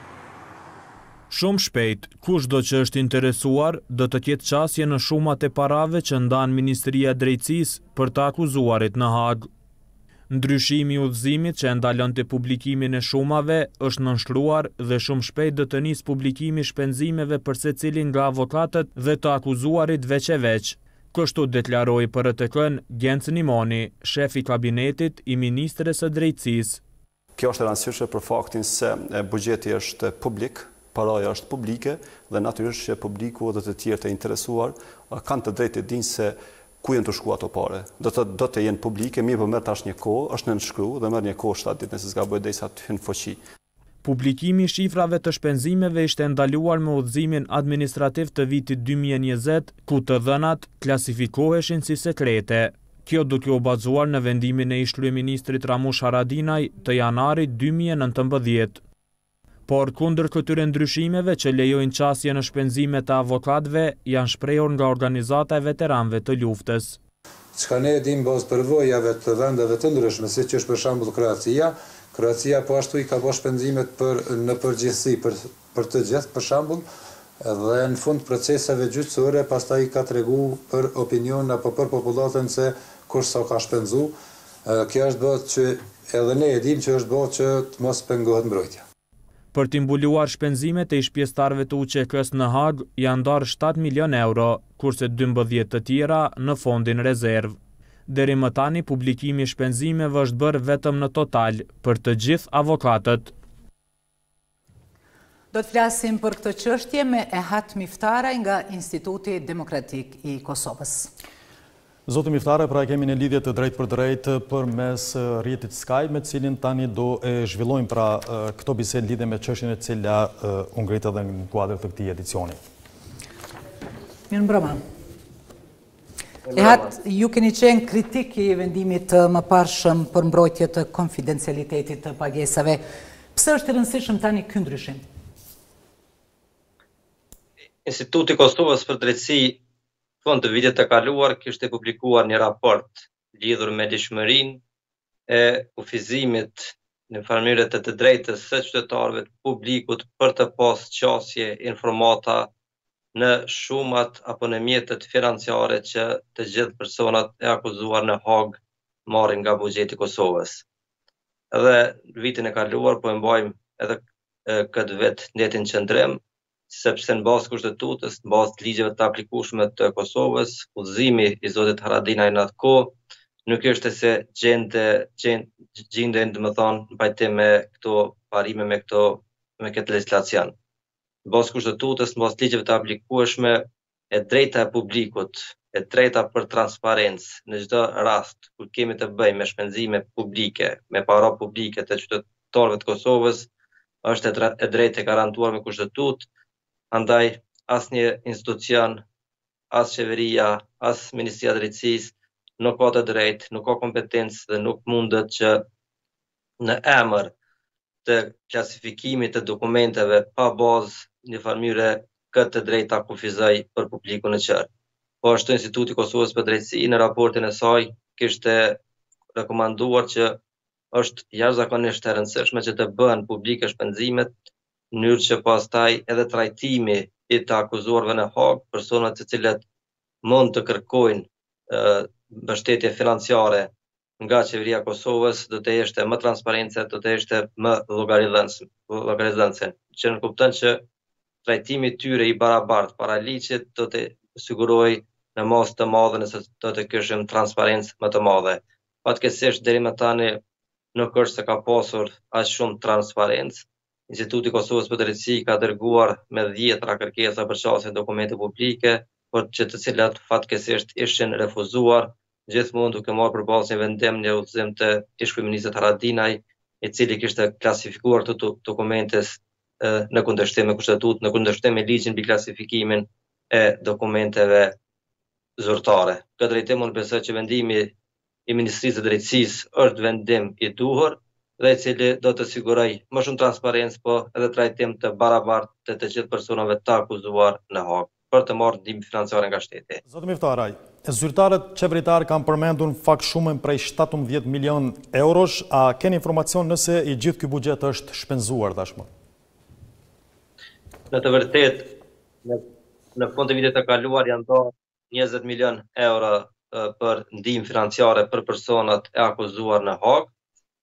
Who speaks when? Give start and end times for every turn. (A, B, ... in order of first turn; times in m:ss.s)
0:01.3-0:09.5 A
0:10.3-0:26.8 A
0:27.4-0:43.4 B
0:44.0-0:58.8 A
0:59.7-1:07.0 A
1:07.6-1:16.8 C
1:17.4-1:24.1 C
1:24.7-1:28.8 C
1:29.5-1:43.3 A
1:45.5-1:51.1 D
1:52.1-2:02.6 E
2:04.3-2:04.8 D
2:06.5-2:07.0 F
2:06.5-2:12.8 D
2:13.3-2:15.0 D
2:17.9-2:19.6 F
2:20.2-2:24.6 F
2:25.3-2:32.5 F
2:33.2-2:40.6 F
2:41.5-3:00.5 F
3:01.3-3:13.5 F
3:14.0-3:16.3 F
3:16.9-3:19.0 F
3:19.7-3:25.6 F
3:26.6-3:27.3 F
3:28.1-3:34.7 F
3:35.2-3:38.8 F
3:39.4-3:40.4 F
3:40.9-3:44.3 F
3:44.9-3:49.6 F
3:50.2-4:00.8 F
4:01.4-4:10.4 F
4:11.0-4:34.8 F
4:35.6-4:37.9 F
4:38.5-4:50.0 F
4:50.1-4:59.1 E
5:01.1-5:02.6 F
5:03.2-5:10.3 F